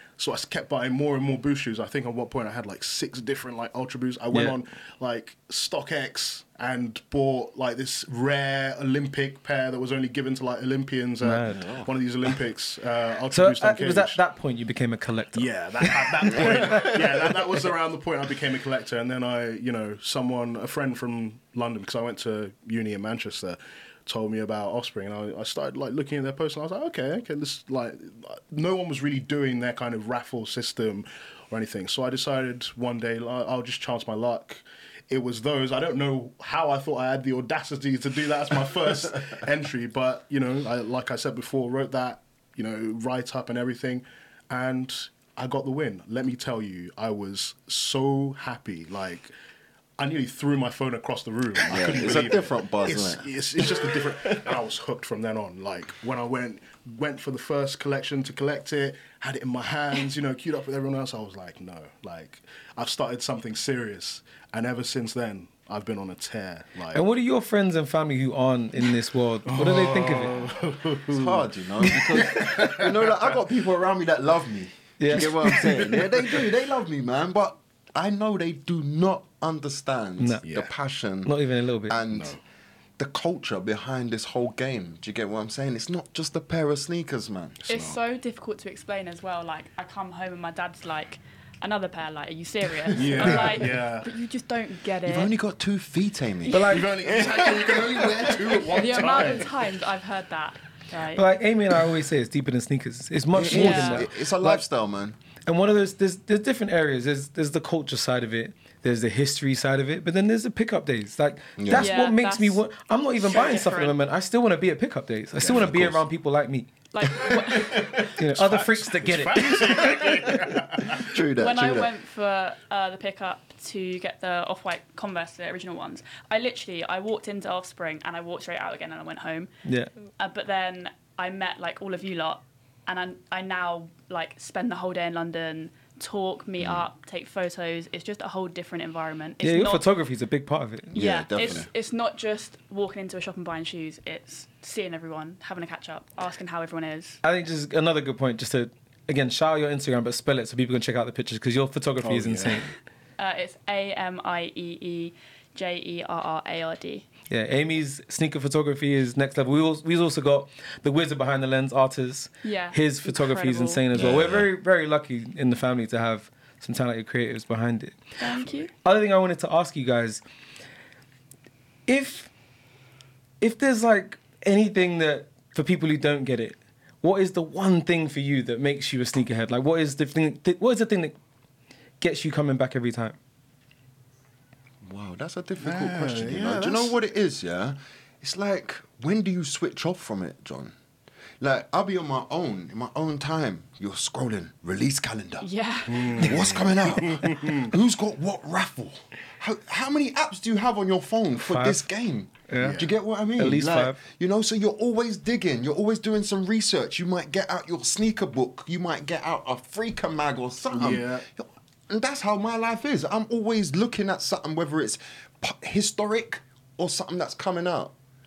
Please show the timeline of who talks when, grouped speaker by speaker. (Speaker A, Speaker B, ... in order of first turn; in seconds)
Speaker A: 0.2-14.2, 15.3-49.3, 50.0-67.0, 69.5-73.3, 75.2-76.0, 80.4-80.7, 82.1-82.4, 87.6-88.0, 92.9-94.1, 96.6-99.7, 118.2-121.1, 152.0-152.7, 185.6-187.0, 195.9-197.7, 202.6-202.9, 210.7-211.2
Speaker B: 4.3-4.6, 11.2-11.7, 13.3-17.4, 66.9-70.4, 75.0-75.9, 80.2-80.4, 81.2-82.0, 96.5-96.9, 101.1-104.6, 105.5-116.7, 118.2-120.2, 129.6-129.9, 139.4-141.0, 147.2-152.7, 157.3-168.0, 168.8-170.2, 171.9-172.3, 173.4-181.1, 182.0-183.2, 201.3-201.9, 202.5-204.0
Speaker C: 11.5-11.9, 16.4-17.0, 51.6-54.4, 71.1-81.3, 81.9-82.4, 83.0-87.5, 95.0-98.6, 103.3-105.2, 111.6-112.0, 115.4-116.0, 117.0-118.1, 120.8-121.9, 140.9-141.7, 163.9-164.5, 184.8-190.7, 191.4-195.5, 196.0-217.9
Speaker D: 87.7-95.3, 98.7-101.3, 103.4-104.0, 111.7-112.6, 113.2-114.0, 116.9-118.1, 121.1-129.5, 130.2-139.8, 140.9-147.2, 153.2-157.1, 162.4-163.8, 168.2-168.7, 195.4-196.6